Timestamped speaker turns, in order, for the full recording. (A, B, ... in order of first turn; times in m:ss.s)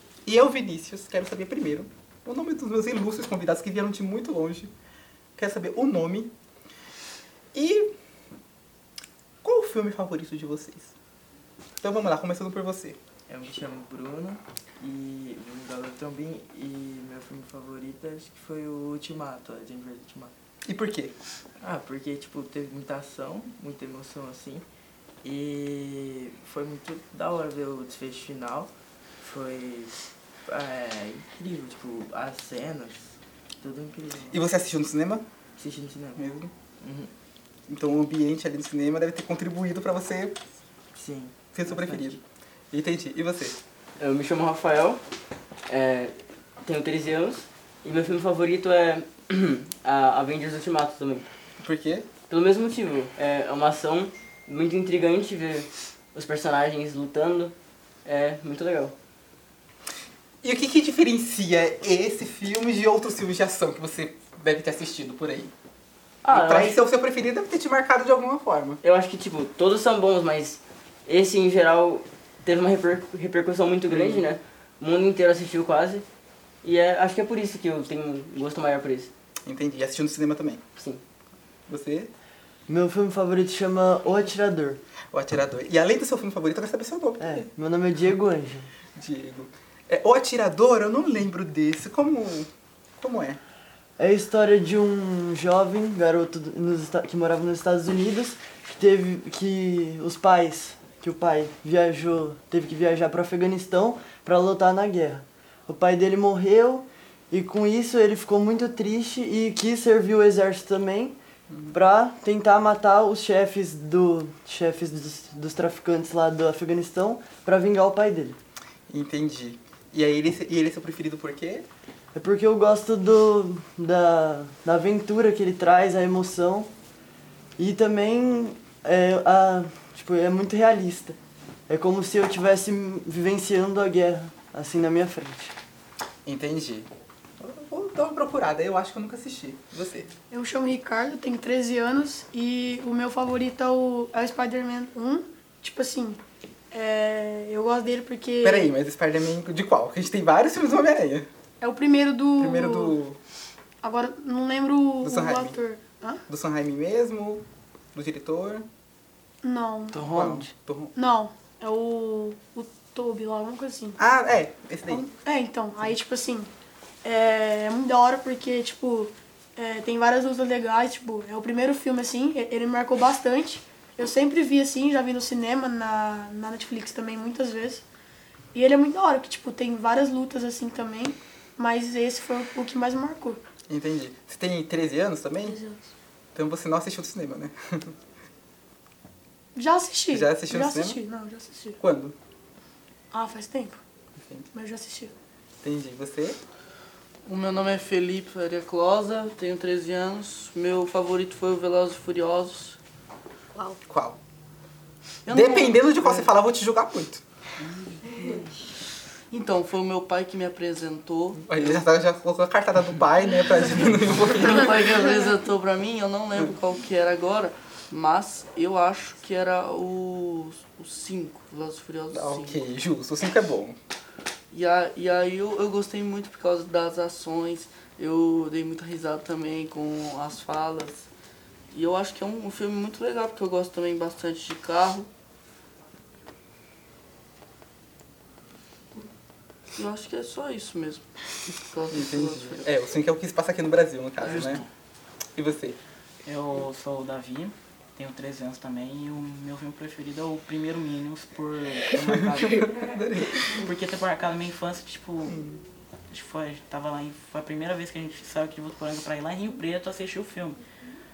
0:00.2-0:04.7 A
0:05.4-0:06.3 A
0:07.5-0:07.9 A
0:09.4-0:10.9 A
0:11.8-0:13.0 A
0:13.3-0:20.3 B
0:20.6-0:21.1 A
0:21.6-0:24.6 B
0:25.2-0:34.4 B
0:34.3-0:35.2 A
0:35.6-0:36.2 B
0:36.2-0:36.5 A
0:36.8-0:37.1 B
0:37.7-0:40.4 A
0:40.9-0:42.2 B
0:41.5-0:42.2 A
0:42.7-0:43.6 A
0:44.0-0:45.0 C
0:45.7-0:51.3 C
0:51.6-0:52.1 A
0:52.3-0:57.5 C
0:58.0-0:58.9 C
1:00.4-1:05.5 A
1:06.2-1:06.8 C
1:06.3-1:08.8 A
1:08.8-1:16.0 C
1:16.6-1:19.1 C
1:19.4-1:20.6 A
1:20.8-1:21.0 C
1:21.7-1:22.1 A
1:22.7-1:24.8 D
1:25.1-1:27.5 A
1:27.2-1:28.7 D
1:29.0-1:33.4 A
1:34.0-1:51.2 D
1:51.5-1:51.8 A
1:51.7-1:58.4 D
1:58.9-2:01.6 A
2:02.1-2:06.7 D
2:07.6-2:11.2 D
2:11.7-2:15.5 D
2:16.2-2:16.9 A
2:17.4-2:20.1 A
2:20.3-2:26.2 E
2:26.7-2:28.7 E
2:28.4-2:31.3 A
2:31.6-2:33.0 E
2:32.4-2:33.2 A
2:33.8-2:36.2 E
2:35.0-2:35.6 A
2:36.3-2:38.6 A
2:39.4-2:40.4 E
2:39.9-2:40.4 D
2:40.1-2:40.9 A
2:40.9-2:44.0 E
2:44.0-2:45.0 A
2:44.9-2:46.5 E
2:47.0-2:57.8 E
2:58.5-3:03.4 E
3:03.7-3:05.6 A
3:05.4-3:05.8 E
3:06.3-3:07.9 A
3:09.5-3:11.8 E
3:10.1-3:11.0 A
3:11.8-3:12.2 A
3:13.1-3:13.8 E
3:14.5-3:15.1 E
3:15.6-3:16.4 A
3:17.2-3:22.8 F
3:23.8-3:24.2 A
3:25.2-3:26.3 F
3:25.3-3:27.2 A
3:27.6-3:28.2 G
3:29.3-3:31.8 F
3:31.4-3:35.0 A
3:34.2-3:42.6 F
3:42.1-3:43.8 A
3:44.5-3:51.1 F
3:51.7-3:55.1 F
3:59.8-4:02.7 F
4:01.9-4:04.6 A
4:04.2-4:04.7 G
4:05.4-4:05.8 A
4:06.2-4:15.4 G
4:11.9-4:13.7 A
4:15.2-4:15.6 A
4:16.1-4:20.6 G